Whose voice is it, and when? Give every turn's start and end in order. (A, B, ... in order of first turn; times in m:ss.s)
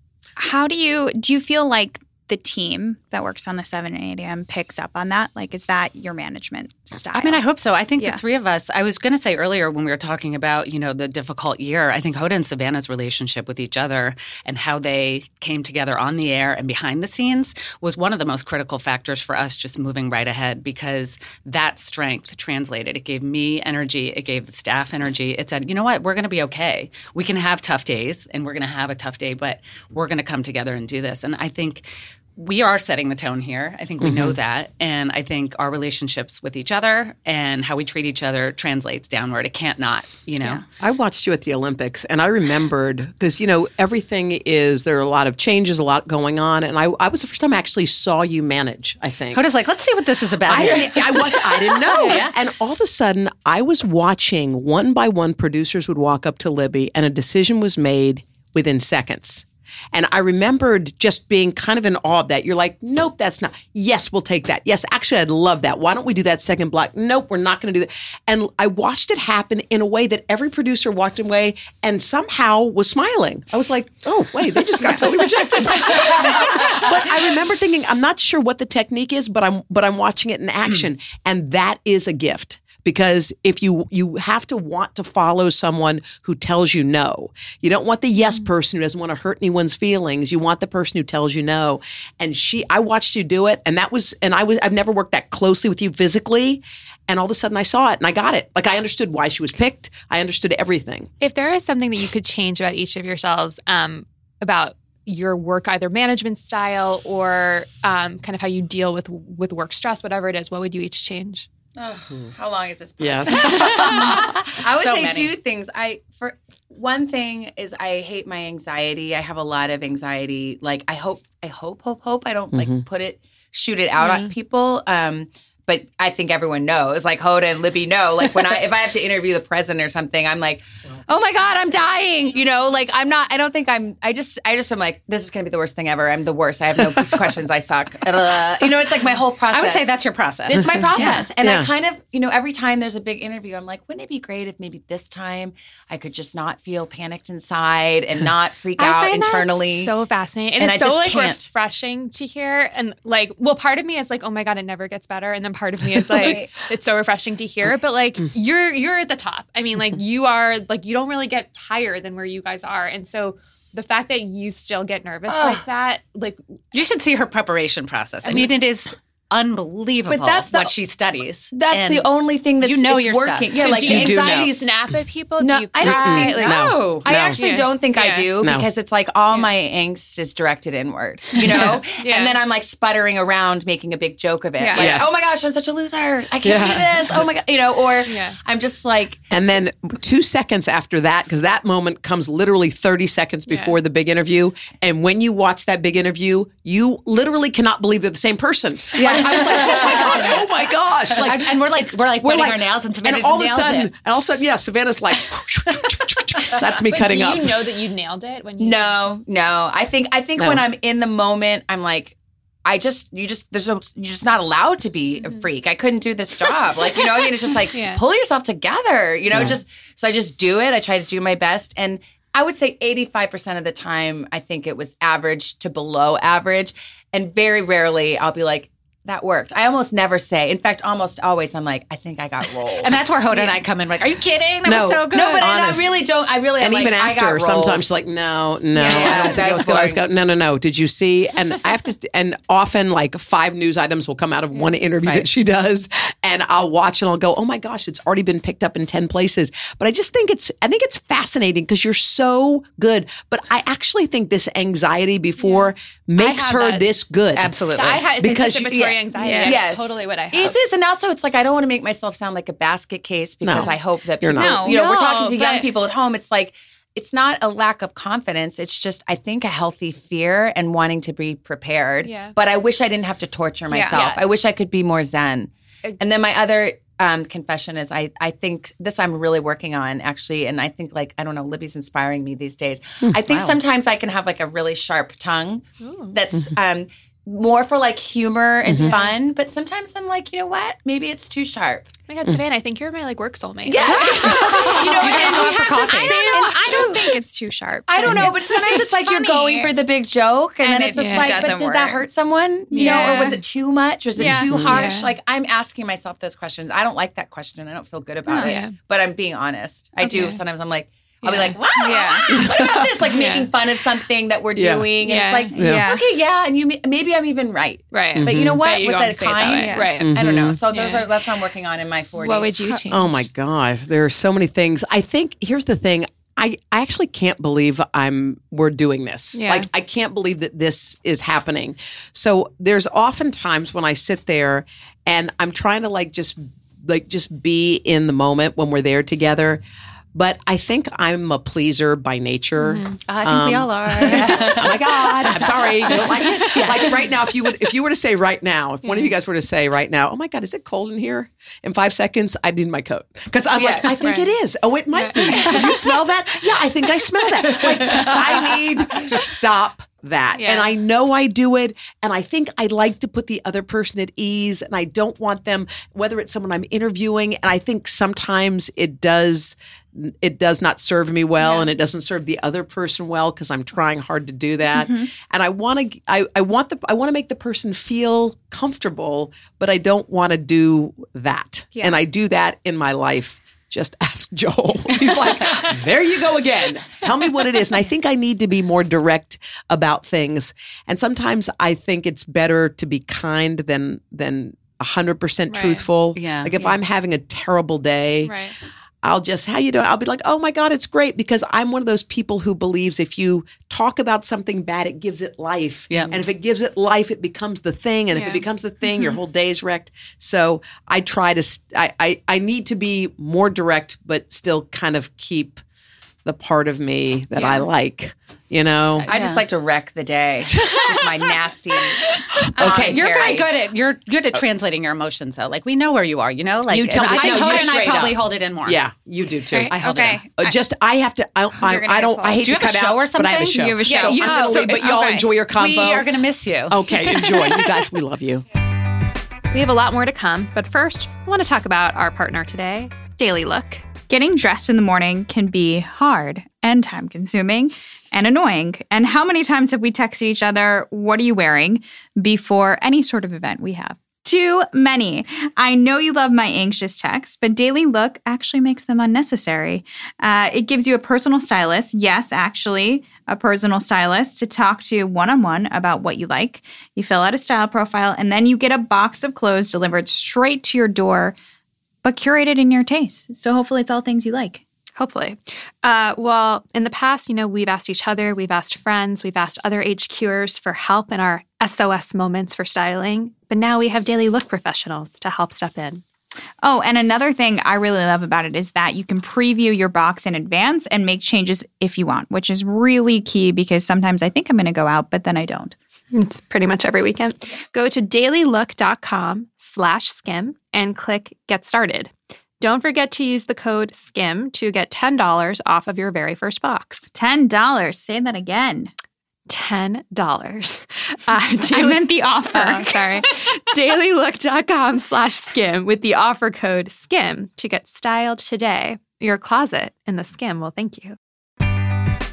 0:00.4-0:07.4 A
0:07.1-0:40.6 B
0:34.0-0:34.4 C
0:40.8-0:49.4 C
0:49.3-0:52.3 B
0:50.4-1:41.1 C
1:41.2-1:51.4 D
1:51.8-2:19.9 E
1:53.0-1:54.3 C
1:53.8-1:55.3 B
2:02.5-2:02.8 C
2:04.0-2:04.3 D
2:19.5-2:20.8 B
2:20.4-2:29.9 E
2:20.6-2:21.7 C
2:21.0-2:21.2 D
2:28.8-2:46.4 D
2:30.6-2:31.4 E
2:45.3-2:45.6 E
2:46.7-2:52.1 B
2:50.1-2:50.7 E
2:51.5-2:54.7 E
2:52.6-2:54.5 B
2:53.6-2:56.6 D
2:53.6-2:54.5 C
2:55.4-3:09.4 E
2:55.8-2:57.4 C
2:56.4-2:57.1 B
2:57.3-2:58.3 D
2:58.4-2:58.7 C
3:01.4-3:01.8 C
3:01.9-3:02.4 D
3:04.6-3:05.0 A
3:04.7-3:05.1 C
3:06.4-3:07.2 C
3:08.0-3:08.4 D
3:09.3-3:27.6 C
3:13.5-3:13.8 D
3:18.9-3:20.6 B
3:21.1-3:23.9 B
3:26.8-3:29.0 D
3:28.6-3:53.0 E
3:37.7-3:38.0 D
3:39.3-3:39.6 C
3:52.7-3:55.5 B
3:54.6-3:55.9 C
3:55.1-3:57.8 E
3:56.6-4:19.0 C
3:58.8-4:00.0 E
4:15.4-4:16.9 D
4:17.4-4:18.0 B
4:17.7-4:20.6 D
4:18.5-4:51.9 E
4:19.2-4:19.6 A
4:23.4-4:24.8 C
4:24.3-4:25.3 A
4:24.7-4:25.7 D
4:32.0-4:32.3 D
4:33.7-4:34.0 A
4:33.9-4:34.2 D
4:43.2-4:43.6 B
4:45.8-4:46.2 D
4:48.6-4:49.0 C
4:48.8-4:49.1 D
4:52.1-4:57.1 D
4:53.6-4:57.2 E
4:53.8-4:59.7 A
4:54.5-4:56.2 B
4:57.9-5:22.8 E
5:00.6-5:02.0 A
5:01.0-5:01.5 D
5:02.7-5:03.4 A
5:02.7-5:03.4 D
5:04.2-5:04.8 A
5:04.2-5:04.7 C
5:04.7-5:05.1 D
5:08.2-5:08.5 A
5:08.4-5:08.8 D
5:10.0-5:10.4 D
5:11.2-5:11.6 D
5:11.7-5:12.4 A
5:12.5-5:12.9 C
5:13.1-5:13.5 D
5:14.5-5:14.9 C
5:15.0-5:15.5 D
5:15.5-5:16.1 A
5:15.6-5:15.9 C
5:17.9-5:20.1 D
5:18.1-5:18.6 C
5:19.5-5:20.0 A
5:20.0-5:20.6 C
5:20.7-5:21.1 D
5:22.2-5:23.2 D
5:22.9-5:39.6 C
5:29.3-5:29.7 D
5:40.1-6:38.5 C
5:42.6-5:43.0 D
5:43.0-5:47.0 B
5:44.1-5:44.6 E
5:46.2-5:46.9 D
5:48.8-5:49.1 D
5:53.6-5:54.0 E
5:54.0-5:54.3 D
5:54.9-5:56.0 D
5:57.5-5:58.5 D
6:00.4-6:00.7 D
6:14.7-6:15.1 A
6:35.5-6:35.8 D
6:36.2-6:36.5 B
6:38.2-6:38.6 D
6:39.0-6:55.6 C
6:45.9-6:46.2 B
6:48.1-6:48.4 D
6:56.2-6:59.1 C
6:57.3-6:57.7 D
6:59.0-6:59.2 D
6:59.1-7:03.5 E
6:59.1-6:59.4 B
7:02.3-7:03.1 C
7:02.6-7:08.8 B
7:06.7-7:16.1 C
7:07.1-7:07.7 D
7:09.7-7:10.2 B
7:09.7-7:10.6 A
7:11.6-7:12.6 A
7:12.4-7:13.9 B
7:13.3-7:15.3 A
7:13.8-7:14.6 D
7:14.5-7:14.9 B
7:15.5-7:16.8 B
7:16.7-7:18.4 C
7:17.1-7:17.7 D
7:19.5-7:23.8 D
7:24.1-7:51.4 A
7:52.0-7:54.6 A
7:55.0-8:06.0 D
8:06.6-8:15.8 A
8:16.1-8:27.1 D
8:27.1-8:28.9 A
8:29.5-8:41.2 D
8:31.6-8:33.2 A